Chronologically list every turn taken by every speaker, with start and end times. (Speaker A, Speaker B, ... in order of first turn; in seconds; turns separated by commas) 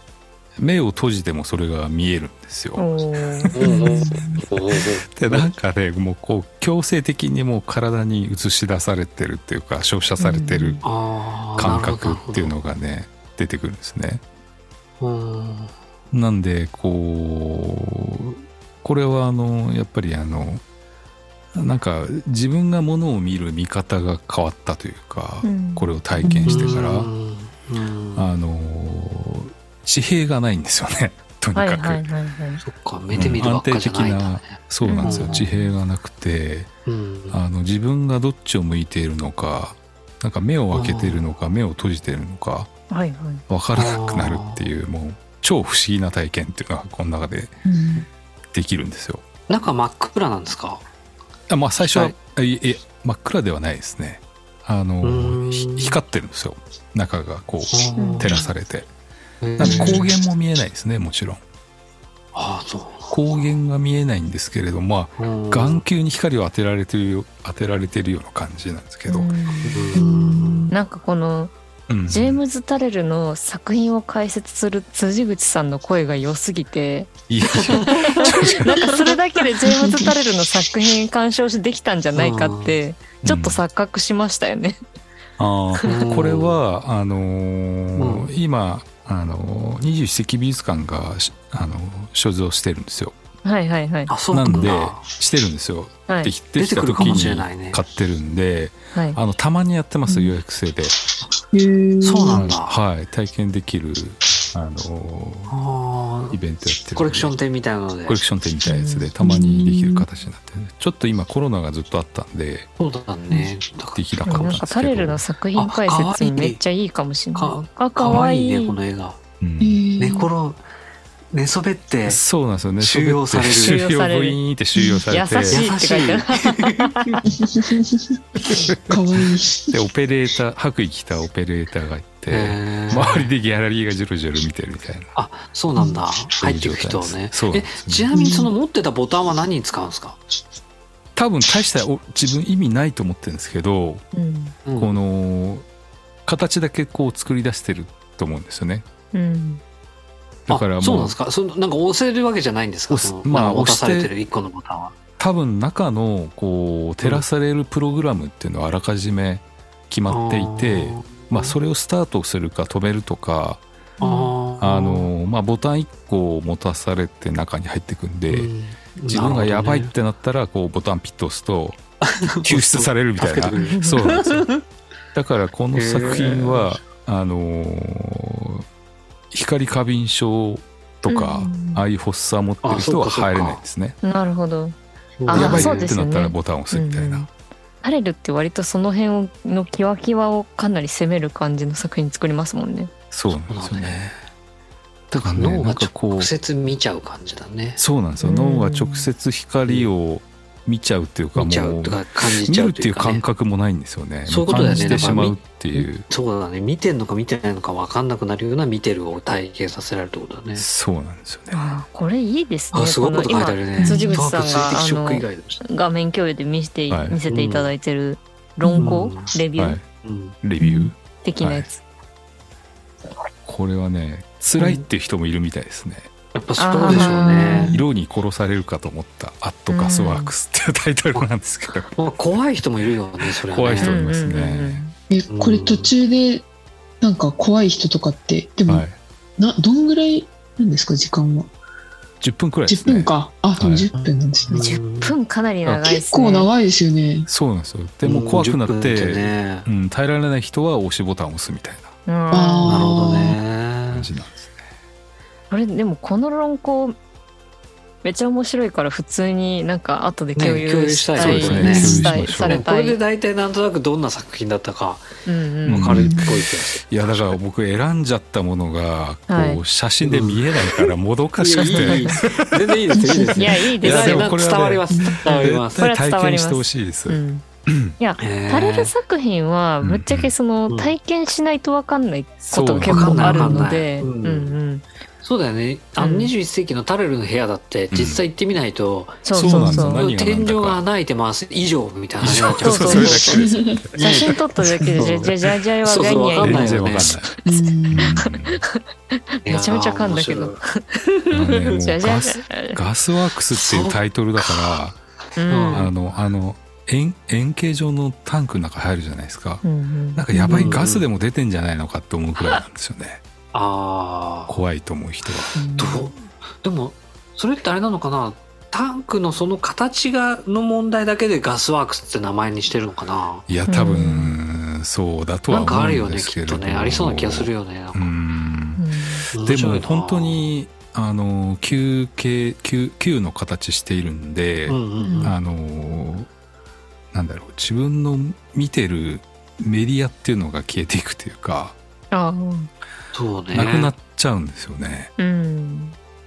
Speaker A: 0.6-2.9, Speaker B: 2.8-3.5, Speaker C: 3.5-5.5, Speaker D: 3.6-4.4, Speaker A: 4.2-10.8, Speaker B: 10.2-10.8, Speaker C: 10.8-12.5, Speaker A: 11.6-14.2, Speaker C: 15.0-15.7, Speaker A: 16.1-20.6, Speaker A: 21.5-27.1, Speaker B: 25.4-25.9, Speaker D: 26.2-26.7, Speaker C: 26.5-28.3, Speaker A: 28.1-32.1, Speaker B: 31.5-32.6, Speaker C: 32.6-35.5, Speaker A: 33.1-36.7, Speaker B: 34.8-35.4, Speaker C: 36.9-37.4, Speaker A: 37.3-42.7, Speaker C: 40.7-41.2, Speaker B: 42.9-43.4, Speaker A: 43.5-47.5, Speaker C: 43.7-44.6, Speaker D: 47.6-48.1, Speaker A: 48.5-49.2, Speaker C: 49.5-50.8, Speaker A: 51.5-58.9, Speaker C: 55.0-56.0, Speaker C: 57.7-58.5, Speaker B: 58.0-58.3, Speaker C: 59.4-60.1, Speaker A: 59.6-61.4, Speaker D: 59.6-60.1, Speaker C: 62.3-63.2, Speaker A: 63.1-69.3, Speaker C: 65.2-65.8, Speaker B: 69.1-69.9, Speaker C: 69.6-70.7, Speaker D: 69.9-70.7, Speaker B: 70.7-71.5, Speaker A: 71.9-72.4, Speaker B: 72.1-84.8, Speaker A: 77.3-78.9, Speaker C: 77.6-78.3, Speaker D: 79.7-80.0, Speaker C: 82.1-82.8, Speaker A: 83.2-83.6, Speaker A: 85.4-93.2, Speaker C: 85.8-86.6, Speaker C: 88.0-88.3, Speaker B: 93.4-94.1, Speaker C: 94.1-95.0, Speaker A: 94.3-101.0, Speaker C: 96.5-97.8, Speaker B: 98.9-99.2, Speaker D: 100.1-100.3, Speaker D: 101.5-102.5, Speaker C: 102.0-102.7, Speaker A: 102.3-105.5, Speaker C: 105.5-106.4, Speaker A: 106.3-107.4, Speaker C: 106.9-108.2, Speaker A: 108.0-112.7, Speaker B: 108.7-109.0, Speaker D: 109.2-110.1, Speaker C: 112.8-114.6, Speaker A: 113.9-115.2, Speaker B: 114.2-118.8, Speaker C: 115.6-116.6, Speaker C: 117.3-119.2, Speaker A: 119.4-119.8, Speaker D: 119.6-120.3, Speaker C: 120.0-120.6, Speaker C: 121.3-122.2, Speaker A: 122.0-125.7, Speaker C: 122.8-123.8, Speaker B: 123.6-124.4, Speaker D: 124.8-125.0, Speaker B: 125.1-127.2, Speaker C: 125.5-127.2, Speaker D: 127.2-129.8, Speaker A: 128.5-129.0, Speaker A: 129.7-135.1, Speaker C: 132.3-133.3, Speaker C: 135.1-140.2, Speaker A: 136.4-138.1, Speaker D: 138.1-138.5, Speaker A: 141.2-144.0, Speaker B: 144.1-144.6, Speaker C: 144.6-145.0, Speaker A: 144.8-145.7, Speaker A: 146.2-148.8, Speaker B: 149.1-149.6, Speaker A: 150.5-151.2, Speaker C: 150.5-154.9, Speaker A: 152.9-154.1, Speaker A: 155.2-163.6, Speaker C: 160.1-161.6, Speaker B: 164.0-164.3, Speaker C: 164.0-165.1, Speaker A: 164.6-168.5, Speaker C: 168.3-169.9, Speaker A: 169.1-171.8, Speaker C: 172.0-174.6, Speaker A: 172.4-174.5, Speaker B: 173.6-174.0, Speaker A: 175.1-178.6, Speaker C: 175.7-176.7, Speaker A: 179.3-184.0, Speaker B: 181.1-181.8, Speaker C: 182.6-183.6, Speaker B: 184.0-184.7, Speaker C: 185.2-185.8, Speaker B: 185.3-187.3, Speaker A: 185.3-187.3, Speaker B: 187.8-192.9, Speaker A: 193.1-194.1, Speaker C: 193.5-194.2, Speaker A: 195.1-196.3, Speaker C: 195.1-197.8, Speaker A: 197.8-206.1, Speaker B: 198.2-199.1, Speaker C: 201.3-203.3, Speaker C: 204.3-205.4, Speaker D: 204.5-205.3, Speaker C: 206.0-210.7, Speaker A: 210.6-211.6, Speaker B: 211.5-219.8, Speaker C: 212.7-215.6, Speaker D: 213.8-214.2, Speaker A: 216.9-217.2, Speaker C: 217.3-217.7, Speaker D: 218.6-219.0, Speaker C: 218.8-219.3, Speaker A: 219.6-219.8, Speaker C: 220.0-220.3, Speaker A: 220.4-221.7, Speaker D: 220.6-220.9, Speaker B: 221.2-221.8, Speaker A: 223.4-226.1, Speaker C: 224.6-224.8, Speaker C: 226.3-227.8, Speaker B: 226.6-227.8, Speaker D: 226.8-227.8, Speaker A: 227.6-231.9, Speaker B: 229.7-230.3, Speaker C: 231.9-234.0, Speaker A: 233.4-234.8, Speaker B: 233.8-234.9, Speaker D: 235.1-236.4, Speaker C: 235.3-235.9, Speaker D: 237.0-238.8, Speaker A: 238.7-238.9, Speaker D: 239.4-241.5, Speaker A: 242.2-243.9, Speaker D: 242.7-244.7, Speaker C: 243.9-245.1, Speaker B: 244.5-246.5, Speaker D: 245.8-247.3, Speaker A: 247.3-251.9, Speaker C: 248.0-249.7, Speaker B: 252.1-252.8, Speaker D: 252.3-253.4, Speaker C: 252.6-254.1, Speaker A: 253.9-254.6, Speaker B: 255.5-256.9, Speaker B: 258.0-263.0, Speaker C: 260.4-265.1, Speaker A: 261.2-262.6, Speaker D: 261.6-262.0, Speaker B: 265.2-265.9, Speaker C: 265.6-267.3, Speaker A: 265.7-272.7, Speaker D: 265.9-266.4, Speaker B: 269.3-269.6, Speaker C: 270.0-275.8, Speaker B: 271.6-272.2, Speaker D: 272.9-273.5, Speaker B: 273.4-274.3, Speaker A: 273.7-277.9, Speaker D: 274.9-275.2, Speaker B: 275.7-277.4, Speaker B: 278.0-284.8, Speaker C: 278.2-278.9, Speaker A: 279.8-280.3, Speaker C: 280.7-280.9, Speaker A: 282.5-283.1, Speaker C: 282.8-284.6, Speaker D: 282.9-283.7, Speaker C: 285.2-293.4, Speaker B: 286.0-286.3, Speaker A: 287.9-288.2, Speaker B: 289.2-290.1, Speaker A: 289.3-290.8, Speaker D: 289.5-289.8, Speaker A: 292.2-294.0, Speaker B: 292.5-293.4, Speaker D: 293.0-295.1, Speaker C: 294.0-294.4, Speaker B: 294.0-298.8, Speaker C: 294.9-297.1, Speaker A: 296.4-297.3, Speaker D: 297.4-298.2, Speaker A: 297.9-298.6, Speaker B: 299.3-302.8, Speaker C: 299.4-300.6, Speaker A: 301.3-305.0, Speaker C: 303.5-304.8, Speaker B: 305.4-305.9, Speaker C: 305.5-305.9, Speaker A: 305.7-309.6, Speaker B: 309.6-310.6, Speaker A: 310.1-313.2, Speaker C: 310.5-311.0, Speaker C: 313.5-314.6, Speaker A: 314.5-315.6, Speaker B: 315.5-316.1, Speaker C: 315.8-323.5, Speaker A: 323.5-336.3, Speaker B: 323.7-324.4, Speaker C: 325.5-328.1, Speaker B: 328.8-329.3, Speaker C: 329.3-330.5, Speaker C: 334.7-335.3, Speaker B: 335.0-335.3, Speaker A: 337.1-341.8, Speaker B: 342.1-342.7, Speaker C: 343.1-343.9, Speaker A: 343.5-345.1, Speaker B: 345.2-345.9